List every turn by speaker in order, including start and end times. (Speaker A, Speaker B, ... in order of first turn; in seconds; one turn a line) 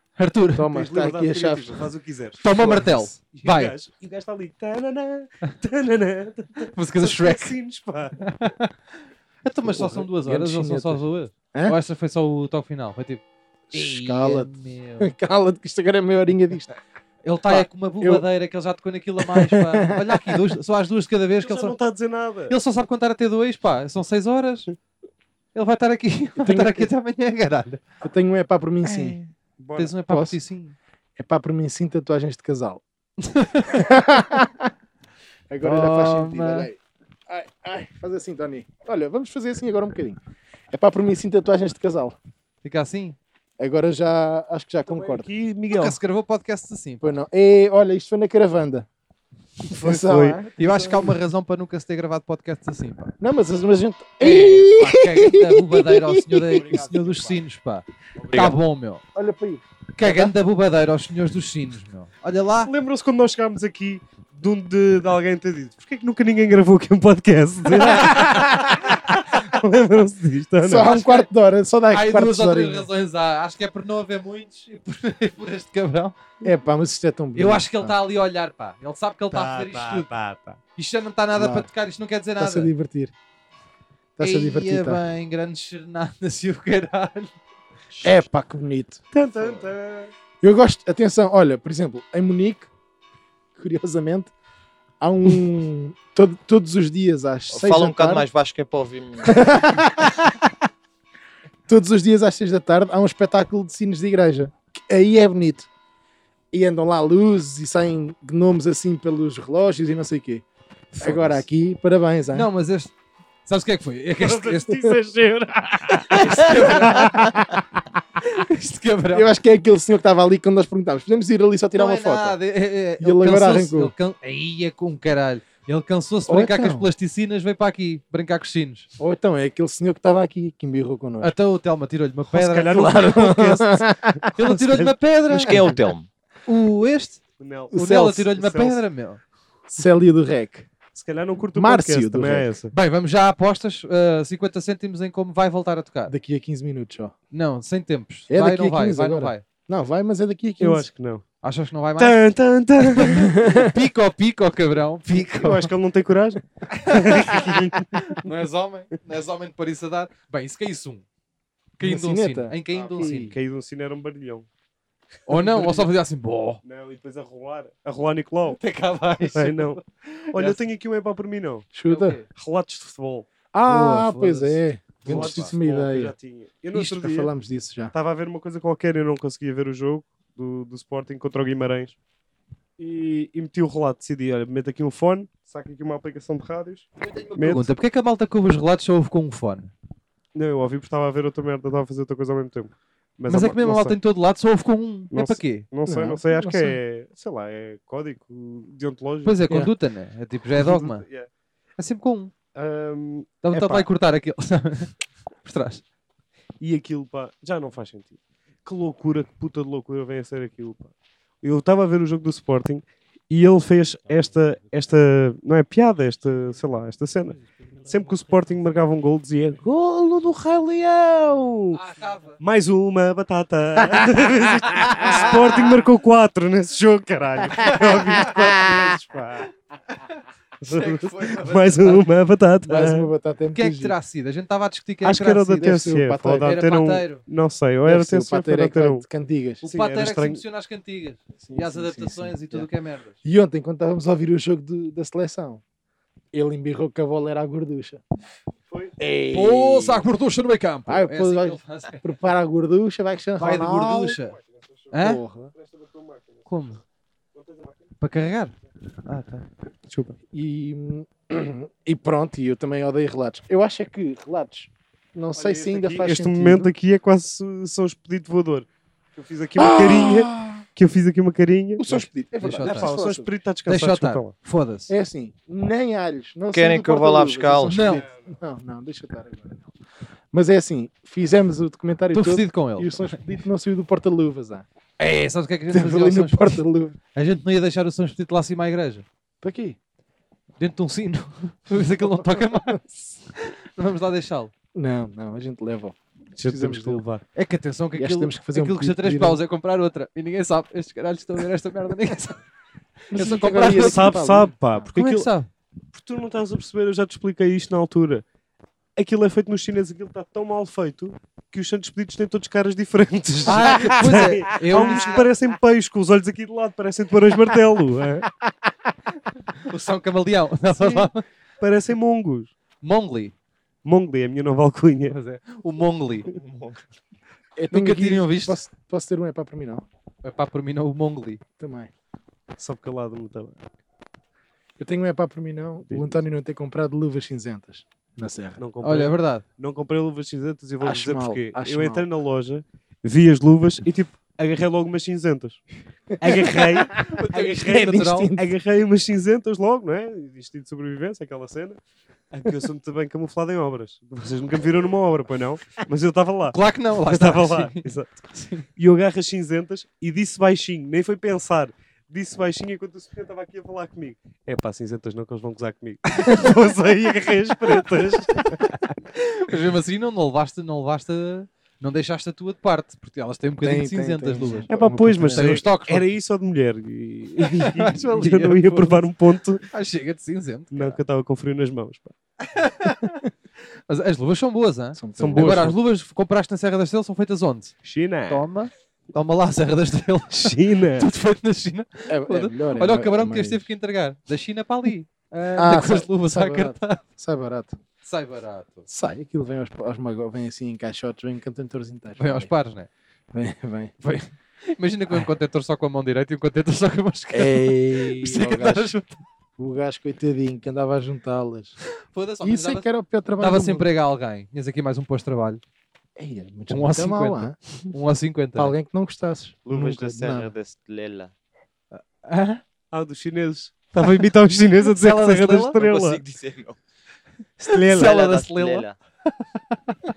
Speaker A: 0.2-0.7
Speaker B: 0.6-1.9
Speaker C: 0.7-8.2
Speaker A: 2.4-3.7
Speaker B: 2.6-3.1
Speaker A: 6.7-7.5
Speaker A: 8.2-8.7
Speaker A: 9.4-13.2
Speaker B: 9.6-11.8
Speaker B: 13.7-16.8
Speaker A: 13.7-15.1
Speaker A: 17.2-21.8
Speaker B: 17.5-18.2
Speaker B: 19.2-20.4
Speaker C: 21.4-22.6
Speaker A: 22.5-24.7
Speaker A: 25.5-27.8
Speaker B: 26.4-26.9
Speaker B: 28.0-29.2
Speaker A: 28.9-30.8
Speaker C: 29.6-29.9
Speaker B: 30.1-30.4
Speaker B: 31.2-32.8
Speaker A: 33.2-33.9
Speaker B: 33.6-34.7
Speaker B: 35.5-40.2
Speaker A: 35.6-36.7
Speaker B: 40.7-42.2
Speaker A: 42.6-43.2
Speaker B: 43.6-45.3
Speaker C: 44.9-46.0
Speaker A: 45.7-47.1
Speaker B: 47.0-48.9
Speaker C: 49.7-50.4
Speaker B: 49.7-51.1
Speaker A: 50.6-53.1
Speaker B: 53.2-56.9
Speaker A: 54.2-59.0
Speaker C: 56.6-56.9
Speaker C: 58.2-58.5
Speaker D: 58.3-58.6
Speaker B: 59.1-60.3
Speaker A: 60.0-62.7
Speaker C: 62.6-71.1
Speaker B: 68.0-68.4
Speaker B: 70.6-72.9
Speaker A: 70.8-71.2
Speaker A: 71.9-76.2
Speaker B: 76.4-78.0
Speaker A: 77.3-80.1
Speaker C: 79.3-80.6
Speaker A: 80.8-82.7
Speaker B: 81.3-81.7
Speaker B: 82.4-83.1
Speaker B: 84.2-85.0
Speaker A: 84.2-87.3
Speaker B: 88.0-89.6
Speaker C: 89.1-90.1
Speaker B: 90.4-92.7
Speaker B: 93.6-94.3
Speaker B: 95.0-98.3
Speaker D: 97.5-99.5
Speaker B: 99.2-100.5
Speaker B: 101.7-105.7
Speaker B: 106.5-110.5
Speaker A: 110.9-111.4
Speaker B: 111.0-112.5
Speaker A: 112.3-112.9
Speaker A: 113.5-114.9
Speaker C: 114.2-117.2
Speaker A: 115.9-117.5
Speaker B: 116.1-117.6
Speaker A: 118.2-119.3
Speaker B: 119.1-122.4
Speaker A: 121.8-128.9
Speaker B: 123.0-123.9
Speaker B: 126.3-126.9
Speaker B: 129.0-131.3
Speaker A: 131.2-133.0
Speaker C: 132.3-134.9
Speaker B: 132.7-134.2
Speaker A: 134.3-135.8
Speaker D: 135.3-136.1
Speaker C: 135.5-135.7
Speaker A: 136.5-137.2
Speaker C: 137.4-137.8
Speaker B: 137.7-138.3
Speaker A: 137.7-139.2
Speaker C: 138.4-138.8
Speaker B: 139.7-140.7
Speaker C: 140.9-142.7
Speaker B: 141.6-142.5
Speaker A: 142.7-146.1
Speaker B: 146.1-147.1
Speaker A: 147.3-149.4
Speaker B: 148.3-150.9
Speaker C: 150.6-151.2
Speaker A: 151.4-152.2
Speaker C: 152.0-153.4
Speaker A: 152.8-155.7
Speaker B: 153.3-153.7
Speaker C: 155.1-158.2
Speaker A: 156.7-161.1
Speaker A: 161.8-163.3
Speaker B: 161.8-163.3
Speaker C: 162.9-164.5
Speaker A: 165.3-166.6
Speaker C: 165.3-165.9
Speaker C: 166.6-168.6
Speaker A: 168.5-170.6
Speaker C: 169.3-169.8
Speaker C: 170.3-171.7
Speaker B: 171.7-172.2
Speaker A: 171.9-172.3
Speaker C: 172.3-173.3
Speaker B: 173.5-176.1
Speaker A: 173.7-175.5
Speaker C: 175.0-177.3
Speaker B: 176.7-177.9
Speaker C: 177.9-182.0
Speaker C: 182.8-187.7
Speaker A: 187.0-189.7
Speaker C: 190.3-194.0
Speaker A: 193.3-195.7
Speaker C: 195.1-199.4
Speaker B: 195.9-196.8
Speaker A: 199.2-201.1
Speaker C: 200.5-201.3
Speaker A: 201.8-202.3
Speaker C: 202.5-203.9
Speaker A: 203.4-205.8
Speaker C: 206.6-221.8
Speaker A: 221.7-222.4
Speaker C: 222.4-229.5
Speaker A: 224.7-225.4
Speaker A: 227.7-228.3
Speaker C: 230.6-233.1
Speaker A: 230.7-232.0
Speaker B: 232.7-234.0
Speaker A: 233.5-235.7
Speaker C: 235.0-239.1
Speaker B: 235.6-236.6
Speaker A: 236.4-237.2
Speaker B: 237.8-239.6
Speaker A: 239.6-243.2
Speaker C: 239.7-240.4
Speaker B: 241.4-242.7
Speaker B: 243.2-245.6
Speaker B: 246.3-248.0
Speaker B: 249.0-250.1
Speaker A: 249.3-252.1
Speaker B: 250.9-254.2
Speaker A: 253.4-254.4
Speaker C: 254.4-254.9
Speaker A: 254.9-255.2
Speaker B: 254.9-255.5
Speaker C: 255.6-256.5
Speaker A: 256.5-256.8
Speaker C: 257.3-257.9
Speaker A: 258.0-258.5
Speaker A: 259.1-259.5
Speaker C: 259.9-260.2
Speaker B: 260.3-266.7
Speaker C: 265.4-272.1
Speaker B: 269.6-270.6
Speaker B: 271.8-273.3
Speaker A: 272.4-273.0
Speaker C: 272.6-274.3
Speaker A: 273.7-274.9
Speaker B: 274.9-279.7
Speaker D: 276.5-277.8
Speaker A: 277.7-278.1
Speaker C: 277.9-278.3
Speaker B: 280.3-284.7
Speaker A: 282.1-283.2
Speaker A: 285.0-286.6
Speaker B: 285.7-287.0
Speaker A: 287.1-289.1
Speaker B: 289.4-289.8
Speaker A: 290.6-294.5
Speaker B: 292.2-292.8
Speaker B: 294.7-297.0
Speaker C: 296.4-297.2
Speaker A: 297.4-302.4
Speaker B: 298.0-299.4
Speaker A: 303.1-304.2
Speaker B: 303.1-304.9
Speaker C: 303.7-305.3
Speaker A: 304.9-305.5
Speaker C: 305.9-308.2
Speaker C: 309.0-318.3
Speaker A: 313.4-315.2
Speaker B: 314.7-315.0
Speaker A: 319.6-321.2
Speaker C: 320.8-321.1
Speaker C: 321.6-322.5
Speaker A: 322.8-323.3
Speaker C: 323.9-325.1
Speaker A: 325.1-326.3
Speaker D: 326.3-326.8
Speaker B: 327.6-329.9
Speaker A: 327.7-328.6
Speaker A: 330.2-331.4
Speaker B: 331.6-331.9
Speaker C: 332.6-333.6
Speaker B: 334.8-338.6
Speaker C: 335.9-336.2
Speaker C: 338.6-345.6
Speaker A: 338.8-339.4
Speaker B: 340.8-342.1
Speaker C: 346.2-351.8
Speaker A: 347.0-348.3
Speaker B: 347.4-348.5
Speaker C: 352.3-358.1
Speaker A: 356.5-358.7
Speaker C: 358.8-368.9
Speaker A: 369.1-374.7
Speaker B: 373.6-375.6
Speaker C: 374.7-379.7
Speaker A: 375.2-376.1
Speaker A: 377.6-379.1
Speaker A: 379.7-381.0
Speaker C: 380.7-382.1
Speaker A: 382.4-383.3
Speaker A: 383.9-387.7
Speaker B: 385.0-385.7
Speaker C: 385.2-385.8
Speaker C: 387.8-388.4
Speaker A: 388.3-397.0
Speaker C: 390.3-391.1
Speaker B: 392.1-393.7
Speaker B: 395.6-397.8
Speaker A: 398.0-398.9
Speaker B: 398.9-402.5
Speaker A: 402.2-402.9
Speaker B: 403.3-403.9
Speaker A: 404.0-409.2
Speaker B: 407.3-408.9
Speaker B: 409.6-411.8
Speaker A: 412.1-412.9
Speaker B: 412.4-413.9
Speaker A: 413.4-415.6
Speaker B: 416.2-417.6
Speaker A: 416.7-418.8
Speaker B: 418.6-420.5
Speaker D: 419.7-421.3
Speaker A: 421.9-422.6
Speaker C: 422.9-426.2
Speaker A: 424.9-425.8
Speaker D: 425.8-426.8
Speaker C: 427.6-428.2
Speaker A: 427.6-430.0
Speaker D: 427.9-429.0